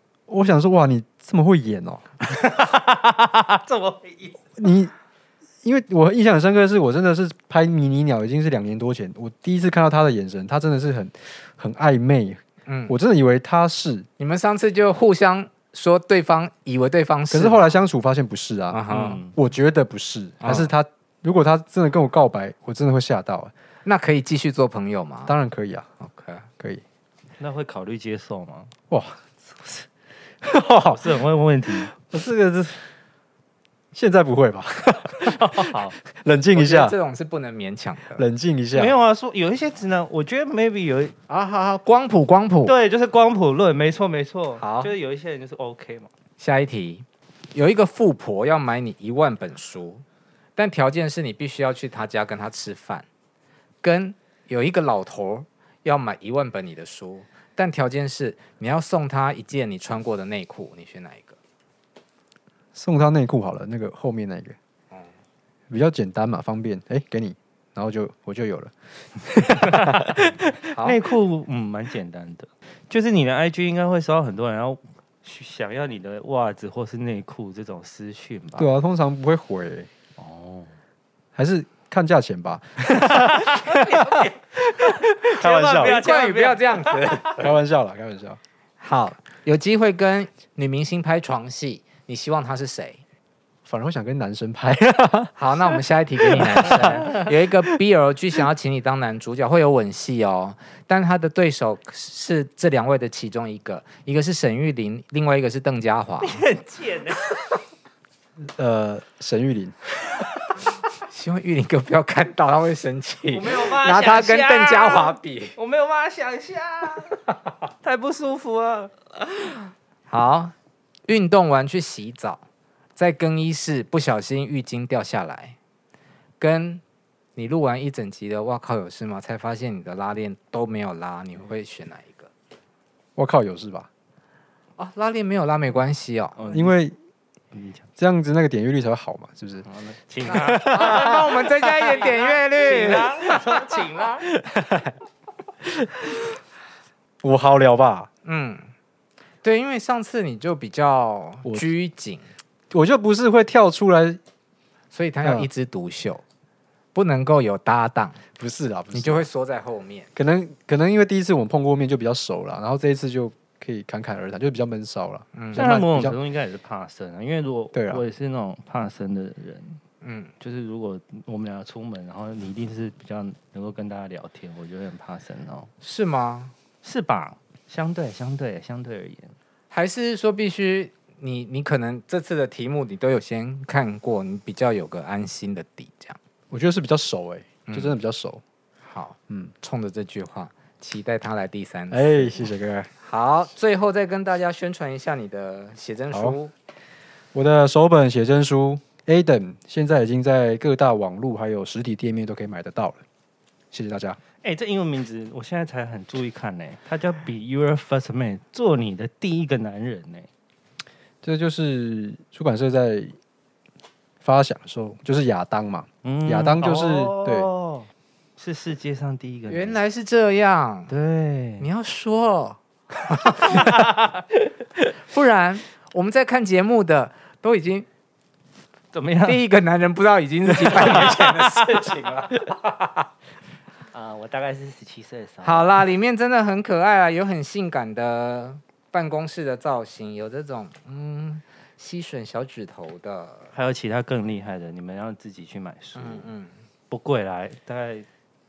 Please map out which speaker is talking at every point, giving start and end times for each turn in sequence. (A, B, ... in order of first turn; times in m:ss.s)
0:00.3-0:02.1 A
0:02.4-0:04.4 B
0:04.6-0:04.9 A
0:05.6-0:14.1 A
0:12.6-0:12.9 C
0:14.2-0:17.8 C
0:17.3-0:23.5 A
0:18.7-0:19.2 C
0:18.9-0:19.4 B
0:20.4-0:20.7 C
0:23.8-0:25.3 C
0:25.3-0:25.9 A
0:26.0-0:26.4 C
0:27.4-0:28.7 B
0:28.9-0:29.8 A
0:30.4-0:31.2 A
0:30.9-0:31.9 B
0:31.7-0:32.9 A
0:33.9-0:36.9 A
0:35.2-0:36.0 B
0:36.6-0:38.2 C
0:38.2-0:39.0 A
0:38.7-0:41.1 B
0:41.3-0:42.7 C
0:42.6-0:46.1 B
0:44.6-0:44.9 C
0:46.4-0:50.0 C
0:50.6-0:53.0 C
0:53.8-1:01.4 C
1:02.7-1:04.6 A
1:05.7-1:10.3 A
1:09.6-1:18.7 B
1:18.6-1:19.9 A
1:20.2-1:20.7 B
1:21.3-1:26.0 A
1:22.9-1:27.4 B
1:25.8-1:27.5 C
1:27.4-1:28.4 A
1:28.8-1:33.0 C
1:33.6-1:35.3 A
1:35.4-1:46.4 C
1:36.3-1:36.8 A
1:36.7-1:37.3 B
1:46.2-1:47.4 B
1:48.6-1:49.8 A
1:51.0-1:55.6 C
1:53.3-1:59.5 B
2:00.1-2:00.5 C
2:01.1-2:02.4 C
2:03.0-2:05.6 C
2:06.4-2:06.8 C
2:07.4-2:12.3 C
2:13.2-2:13.9 A
2:14.8-2:16.4 C
2:16.4-2:16.7 B
2:16.5-2:16.9 A
2:17.5-2:17.9 B
2:18.0-2:19.6 A
2:19.6-2:24.2 B
2:20.3-2:23.4 C
2:20.3-2:21.2 A
2:24.3-2:24.9 A
2:25.8-2:26.2 A
2:27.2-2:28.1 A
2:28.2-2:28.7 C
2:29.4-2:32.2 C
2:32.7-2:34.2 A
2:34.9-2:36.2 C
2:35.2-2:35.5 A
2:36.9-2:38.2 C
2:38.4-2:39.2 A
2:38.9-2:40.1 C
2:40.1-2:46.2 A
2:45.3-2:45.6 C
2:45.5-2:49.8 B
2:47.7-2:48.0 A
2:50.0-2:50.3 C
2:50.4-2:55.7 B
2:55.8-2:56.5 C
2:56.8-2:59.4 B
2:59.7-3:06.2 C
3:06.5-3:08.4 A
3:07.7-3:08.0 C
3:08.9-3:16.5 C
3:11.9-3:12.9 A
3:17.3-3:23.0 A
3:23.7-3:24.2 A
3:24.4-3:30.3 B
3:31.2-3:33.1 A
3:34.2-3:37.5 A
3:36.0-3:39.8 B
3:39.5-3:40.9 C
3:40.9-3:41.7 B
3:41.6-3:43.8 C
3:43.4-3:44.2 B
3:44.8-3:47.9 C
3:48.9-3:49.4 B
3:49.2-3:53.0 C
3:50.5-3:52.0 B
3:53.9-3:55.7 B
3:55.4-4:03.5 C
4:03.5-4:06.3 B
4:05.9-4:06.5 C
4:06.9-4:08.0 B